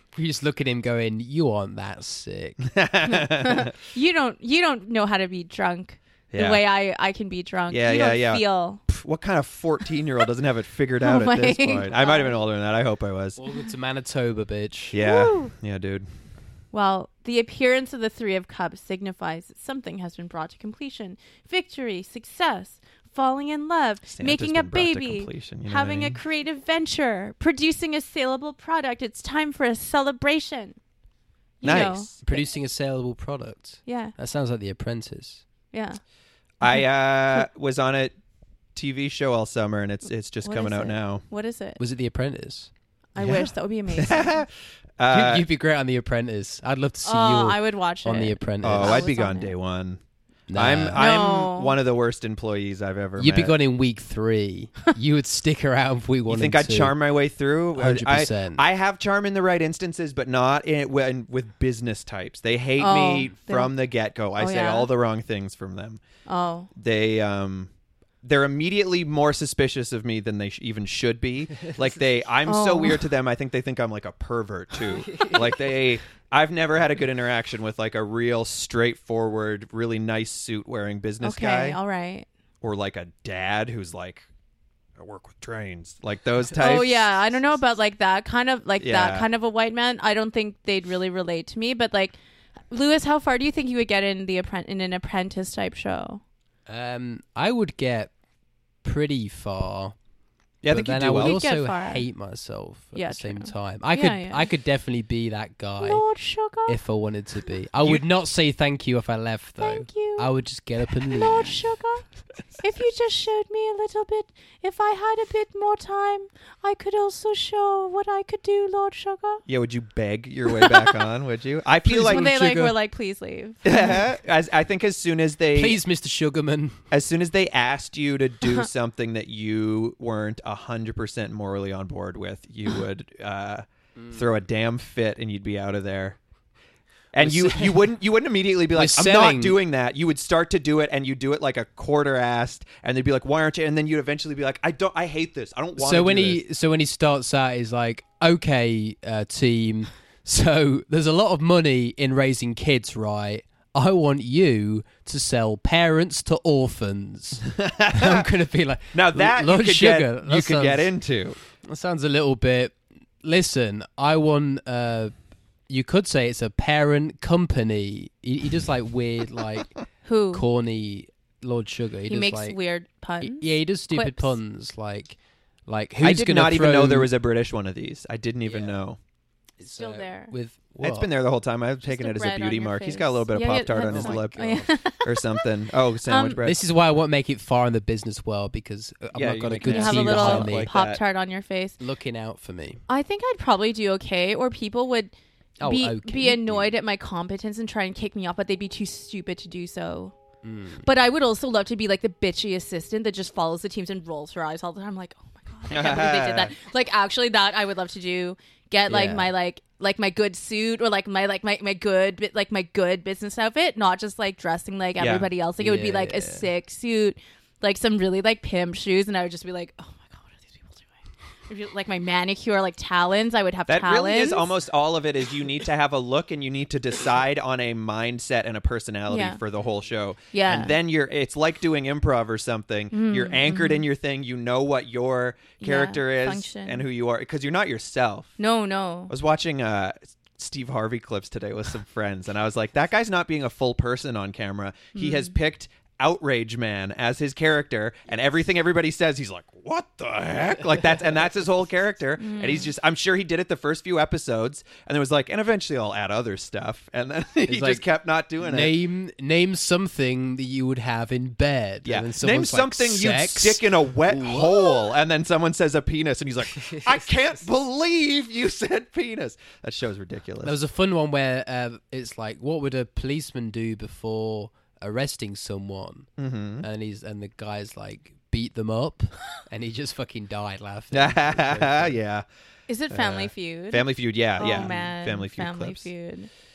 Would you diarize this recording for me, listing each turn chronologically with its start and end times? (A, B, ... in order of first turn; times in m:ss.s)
0:00.1-0:02.6 A
0:02.6-0:03.7 B
0:03.1-0:08.8 C
0:06.3-0:06.6 B
0:07.7-0:13.4 B
0:11.0-0:12.3 C
0:13.4-0:15.0 A
0:14.9-0:16.1 B
0:15.0-0:15.5 C
0:16.7-0:30.8 C
0:24.1-0:26.2 B
0:31.6-0:32.4 C
0:31.6-0:32.2 B
0:31.6-0:35.4 A
0:33.9-0:34.2 C
0:35.7-0:36.0 C
0:36.6-0:38.1 B
0:38.8-0:41.2 B
0:40.4-0:41.8 C
0:41.8-0:42.7 A
0:43.2-0:44.5 C
0:43.2-0:44.5 B
0:45.0-0:45.5 B
0:45.1-0:49.1 A
0:47.0-0:49.5 C
0:48.6-0:50.0 B
0:50.5-0:51.0 A
0:50.6-0:53.6 B
0:51.0-0:51.8 C
0:53.2-0:57.0 A
0:56.3-1:06.0 B
0:57.8-0:58.6 A
1:02.8-1:03.7 C
1:04.4-1:04.9 C
1:06.3-1:06.7 C
1:06.8-1:07.7 B
1:08.2-1:21.8 B
1:12.5-1:13.0 C
1:14.9-1:15.6 A
1:21.2-1:22.3 C
1:22.6-1:24.3 B
1:25.0-1:27.3 B
1:26.6-1:32.2 C
1:28.8-1:29.3 B
1:32.7-1:36.2 C
1:36.7-1:38.1 A
1:38.8-1:40.0 A
1:40.6-1:41.4 B
1:40.7-1:46.0 A
1:41.2-1:42.1 C
1:42.9-1:44.5 C
1:45.8-1:46.8 C
1:46.7-1:51.6 A
1:49.6-1:50.3 C
1:51.1-1:52.1 C
1:52.6-1:59.4 C
1:59.5-2:02.3 B
2:00.5-2:00.9 C
2:01.8-2:02.8 A
2:02.1-2:04.0 C
2:03.6-2:05.8 B
2:05.6-2:06.8 A
2:06.9-2:16.2 B
2:17.1-2:26.4 B
2:17.2-2:17.9 A
2:18.7-2:19.6 A
2:25.8-2:40.9 A
2:37.5-2:38.3 B
2:38.9-2:41.4 B
2:41.5-2:45.1 A
2:45.7-2:49.7 A
2:50.0-2:50.4 C
2:50.3-2:52.6 A
2:52.1-2:54.4 C
2:53.2-2:57.1 A
2:56.0-2:59.0 B
2:58.5-2:58.8 A
2:59.6-3:01.1 A
2:59.6-3:00.3 C
3:00.8-3:06.6 B
3:01.8-3:05.4 C
3:03.9-3:04.7 A
3:06.1-3:06.4 C
3:06.4-3:10.7 A
3:09.2-3:11.0 B
3:09.6-3:11.8 C
3:11.8-3:12.8 A
3:12.9-3:20.2 C
3:15.6-3:16.7 A
3:20.4-3:20.8 A
3:20.8-3:44.5 C
3:25.7-3:26.5 B
3:28.9-3:29.3 A
3:35.0-3:35.3 B
3:35.6-3:36.5 A
3:43.7-3:58.4 B
3:49.1-3:49.4 C
3:50.3-3:50.8 C
3:52.9-3:53.8 C
3:55.6-3:56.8 C
3:58.4-3:59.1 C
3:59.1-4:18.8 B
4:05.0-4:05.3 C
4:12.2-4:12.7 C
4:17.5-4:17.8 A
4:18.4-4:24.9 A
4:21.8-4:30.6 B
4:26.6-4:27.1 A
4:30.4-4:36.1 A
4:36.2-4:36.7 B
4:36.6-4:42.0 A
4:40.9-4:42.2 B
4:42.7-4:46.3 C
4:42.9-4:45.9 B